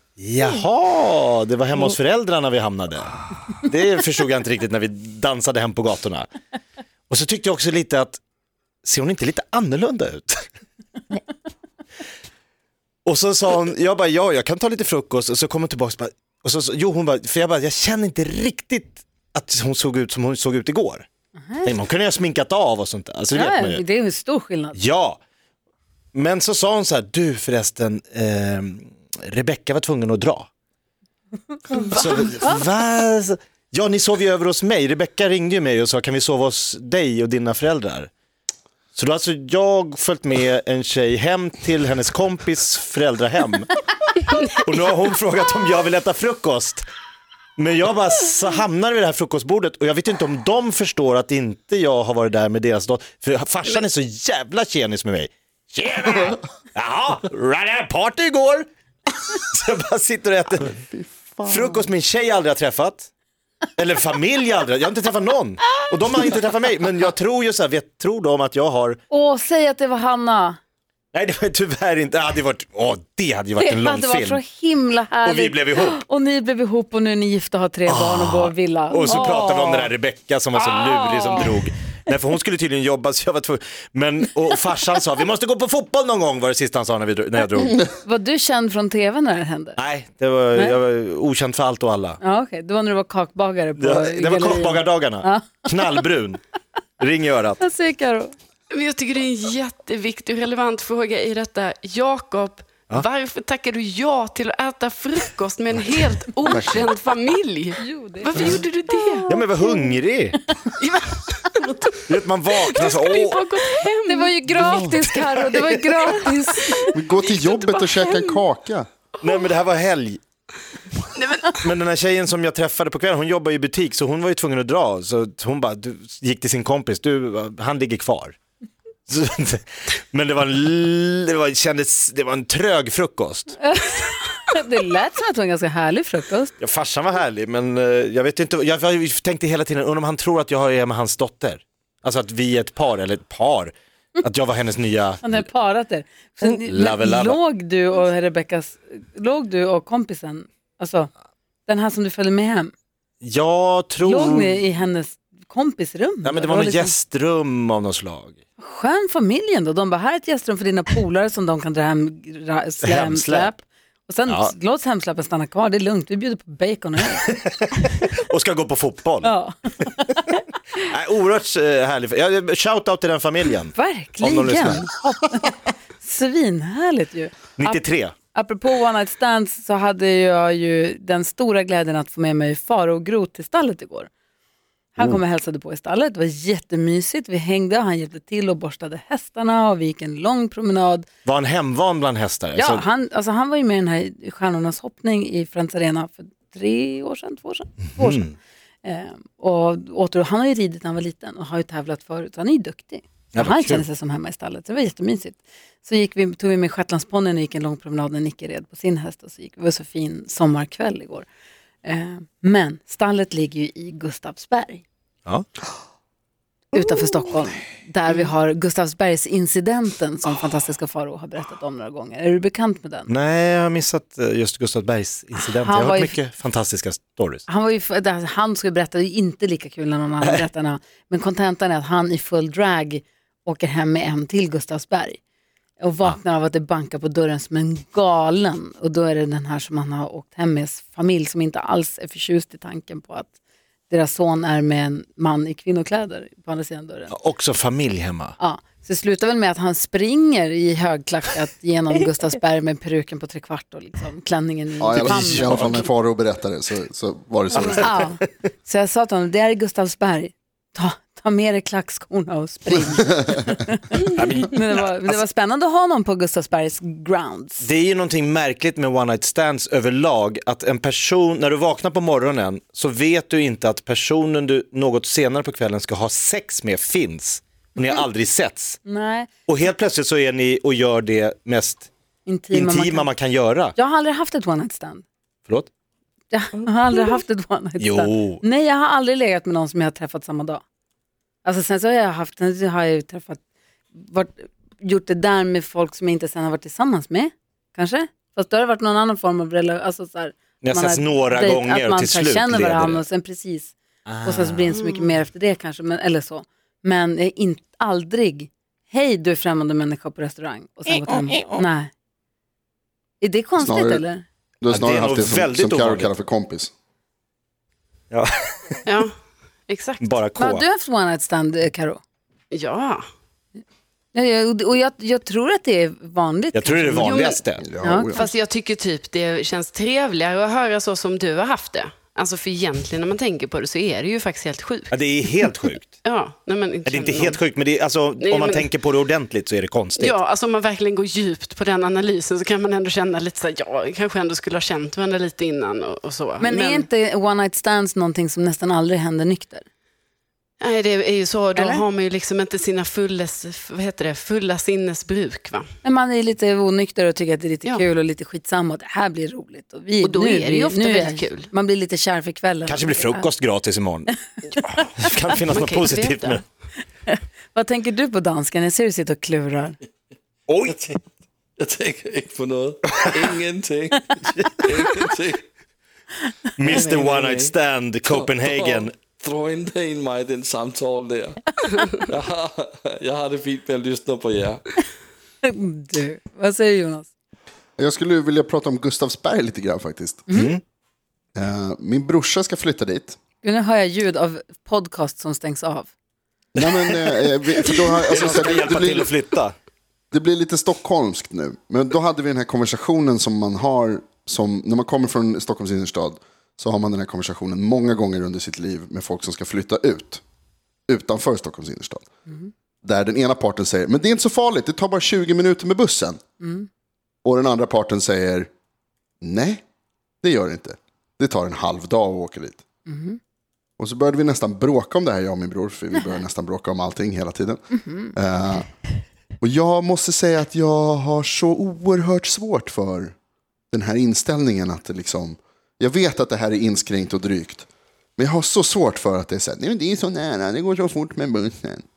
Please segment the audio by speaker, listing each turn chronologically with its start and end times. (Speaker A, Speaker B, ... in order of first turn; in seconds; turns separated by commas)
Speaker A: 0.2-6.3, Speaker A: 7.1-8.2, Speaker A: 8.8-10.5, Speaker A: 13.1-21.1, Speaker B: 21.4-21.8, Speaker A: 21.6-23.8, Speaker B: 23.3-24.8, Speaker A: 24.7-25.2, Speaker A: 26.1-30.5, Speaker B: 31.6-32.6, Speaker A: 31.7-38.1, Speaker A: 38.9-43.7, Speaker A: 44.4-46.8, Speaker A: 47.6-60.8, Speaker C: 60.8-61.6, Speaker A: 61.4-63.1, Speaker A: 63.8-69.0, Speaker B: 69.1-70.6, Speaker A: 71.1-74.4, Speaker B: 73.6-79.9, Speaker A: 75.2-76.0, Speaker A: 77.9-87.9, Speaker B: 80.6-81.7, Speaker B: 88.0-89.8, Speaker A: 89.8-92.2, Speaker B: 92.2-96.0, Speaker A: 93.8-96.4, Speaker A: 97.0-97.6, Speaker B: 97.6-98.3, Speaker D: 98.7-109.2, Speaker B: 107.8-109.8, Speaker A: 109.3-110.4, Speaker D: 110.8-112.0, Speaker A: 112.1-113.5, Speaker D: 112.6-114.4, Speaker B: 114.0-116.9, Speaker A: 114.6-115.3, Speaker D: 115.2-118.3, Speaker C: 116.9-118.9, Speaker A: 119.2-120.2, Speaker A: 121.5-128.4, Speaker A: 129.1-133.6, Speaker B: 133.6-136.5, Speaker A: 136.6-145.4, Speaker B: 145.2-151.1, Speaker A: 146.6-147.4, Speaker B: 151.7-152.7, Speaker A: 153.2-154.6, Speaker B: 154.0-156.9, Speaker A: 156.2-158.4, Speaker B: 158.6-167.2, Speaker A: 162.8-163.5, Speaker A: 164.3-164.5, Speaker A: 167.2-169.3, Speaker B: 169.2-170.3, Speaker A: 170.8-174.8, Speaker B: 173.7-184.1, Speaker A: 177.6-178.1, Speaker B: 184.9-191.1, Speaker A: 191.2-192.8, Speaker B: 192.5-198.3, Speaker A: 198.0-198.3, Speaker B: 198.8-211.3, Speaker A: 203.3-203.8, Speaker B: 211.8-214.8, Speaker B: 216.7-223.1, Speaker A: 223.1-227.4, Speaker B: 225.5-226.2, Speaker B: 227.5-235.2, Speaker B: 235.8-243.3, Speaker B: 243.9-247.1, Speaker A: 247.1-248.3, Speaker B: 248.4-255.8, Speaker C: 254.8-258.0, Speaker A: 255.0-255.5, Speaker B: 257.6-267.6, Speaker A: 264.1-265.1, Speaker A: 267.6-278.8, Speaker B: 278.8-279.3, Speaker A: 279.5-281.9, Speaker B: 282.2-283.1, Speaker A: 282.5-283.7, Speaker B: 283.8-285.0, Speaker B: 286.3-290.6, Speaker A: 287.8-288.4, Speaker B: 291.4-293.4, Speaker B: 293.9-311.9, Speaker A: 300.6-303.0, Speaker A: 304.1-304.7, Speaker D: 304.8-305.0, Speaker B: 313.2-314.2, Speaker C: 313.6-314.0, Speaker C: 314.6-316.7, Speaker A: 314.7-316.1, Speaker A: 318.1-318.9, Speaker D: 319.7-320.0, Speaker A: 320.0-320.6, Speaker B: 320.4-322.0, Speaker D: 322.5-323.0, Speaker B: 324.1-328.3, Speaker A: 326.5-327.6, Speaker D: 327.0-327.4, Speaker C: 327.6-328.2, Speaker D: 328.0-335.4, Speaker A: 334.9-336.0, Speaker D: 336.0-337.4, Speaker A: 336.8-340.2, Speaker D: 338.2-338.7, Speaker D: 339.9-346.9, Speaker B: 346.4-349.6, Speaker D: 350.6-355.7, Speaker B: 351.5-351.9, Speaker B: 355.8-363.3, Speaker D: 360.0-361.5, Speaker A: 362.7-366.4, Speaker D: 365.5-366.4, Speaker B: 367.1-369.8, Speaker A: 370.5-370.8, Speaker E: 370.7-371.0, Speaker E: 371.6-375.4, Speaker A: 376.6-378.9, Speaker E: 376.7-377.5, Speaker E: 378.1-384.6, Speaker B: 385.4-387.1, Speaker C: 387.8-390.3, Speaker B: 390.3-390.5, Speaker A: 390.3-390.6, Speaker C: 391.3-393.2, Speaker B: 393.4-395.9, Speaker C: 396.5-399.1, Speaker A: 398.1-399.5, Speaker C: 400.1-410.2, Speaker C: 410.9-412.1, Speaker C: 412.8-416.2, Speaker B: 416.4-416.7, Speaker C: 417.2-418.5, Speaker C: 419.2-419.6, Speaker C: 420.2-422.6, Speaker B: 422.9-423.2, Speaker C: 423.8-428.7, Speaker B: 427.8-428.1, Speaker C: 429.4-433.1, Speaker C: 433.7-441.8